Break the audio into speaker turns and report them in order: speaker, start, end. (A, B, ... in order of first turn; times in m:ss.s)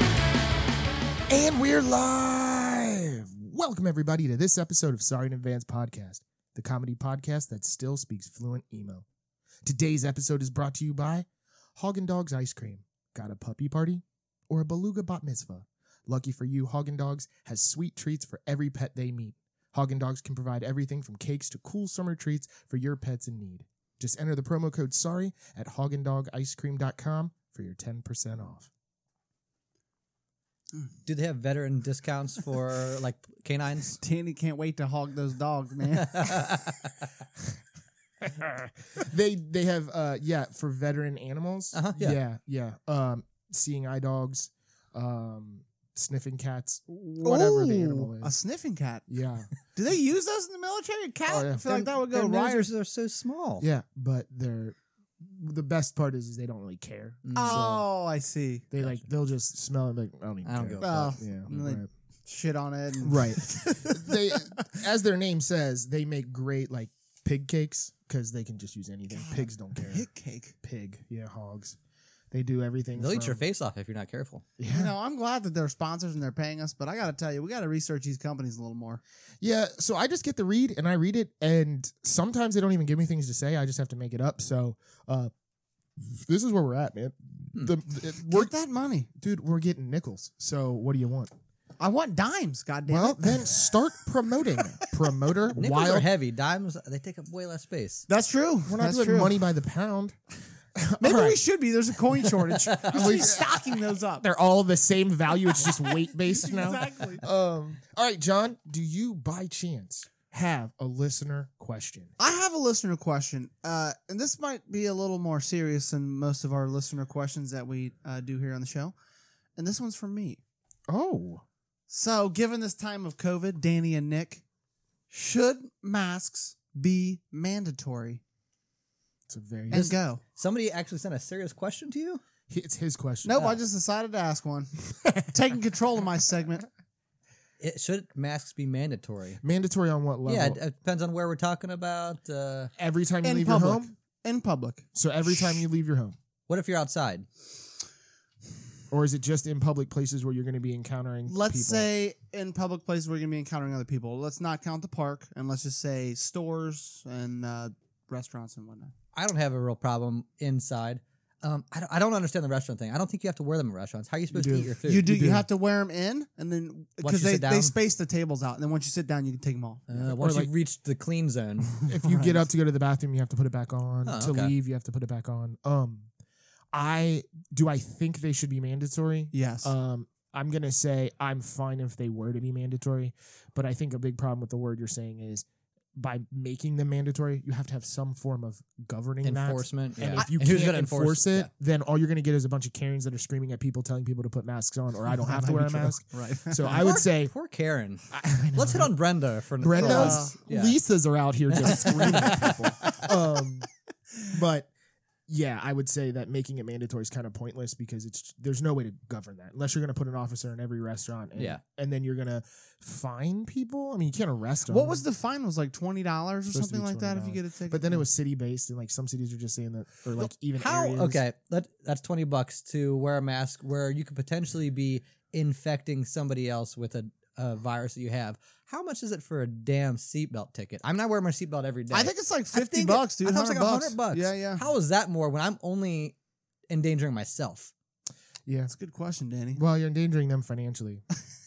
0:01.3-0:09.1 A
0:09.6-0:28.7 A
0:31.1-0:34.0 B
0:34.0-0:36.6 C
0:36.0-0:37.0 B
0:38.2-0:48.3 A
0:41.7-0:42.2 B
0:47.2-0:49.1 C
0:49.1-0:49.5 A
0:49.6-0:52.7 C
0:51.3-0:51.7 A
0:51.7-0:53.7 B
0:53.6-0:57.8 A
0:57.2-0:57.8 B
0:57.3-0:58.7 C
0:58.7-1:01.9 A
1:00.4-1:01.0 B
1:00.8-1:04.6 C
1:03.0-1:10.1 A
1:09.1-1:10.5 C
1:10.6-1:11.8 A
1:12.3-1:13.4 A
1:13.0-1:14.4 B
1:14.6-1:14.9 A
1:14.7-1:19.0 C
1:19.4-1:25.3 A
1:26.1-1:28.5 A
1:28.3-1:29.1 C
1:29.2-1:31.3 A
1:31.8-1:33.8 C
1:32.9-1:36.1 A
1:34.6-1:34.9 C
1:35.6-1:38.1 B
1:38.1-1:39.4 C
1:38.7-1:40.2 A
1:40.8-1:41.4 A
1:41.0-1:44.3 C
1:42.6-1:43.1 B
1:42.9-1:52.1 A
1:45.6-1:47.2 C
1:52.2-1:59.0 C
1:59.6-2:00.4 C
2:00.9-2:01.4 A
2:01.9-2:04.4 C
2:05.1-2:08.2 C
2:09.3-2:09.9 A
2:09.7-2:10.2 C
2:09.7-2:12.2 B
2:12.5-2:13.6 A
2:13.2-2:16.7 C
2:17.6-2:19.4 B
2:19.4-2:20.6 A
2:20.2-2:22.7 B
2:22.8-2:23.9 A
2:23.2-2:25.6 C
2:25.0-2:26.2 A
2:26.5-2:27.3 B
2:28.9-2:31.9 A
2:31.3-2:38.9 C
2:39.2-2:45.1 B
2:44.3-2:45.5 A
2:44.9-2:49.9 C
2:47.0-2:47.7 B
2:49.9-2:51.7 B
2:50.0-2:50.5 A
2:51.8-2:56.1 A
2:51.9-2:52.4 C
2:54.0-2:54.5 B
2:56.7-3:17.3 A
2:59.3-2:59.7 C
3:09.2-3:11.5 B
3:15.2-3:16.9 C
3:16.7-3:20.8 B
3:18.1-3:18.9 A
3:19.6-3:23.7 A
3:19.7-3:20.4 C
3:21.5-3:23.1 B
3:21.7-3:22.6 C
3:24.3-3:24.7 A
3:25.3-3:35.0 A
3:31.4-3:31.6 B
3:34.7-3:38.0 C
3:36.5-3:41.2 A
3:40.6-3:56.2 B
3:51.9-3:54.6 C
3:56.7-3:57.7 B
3:58.5-3:58.7 A
3:58.7-3:59.6 C
3:59.6-4:01.0 A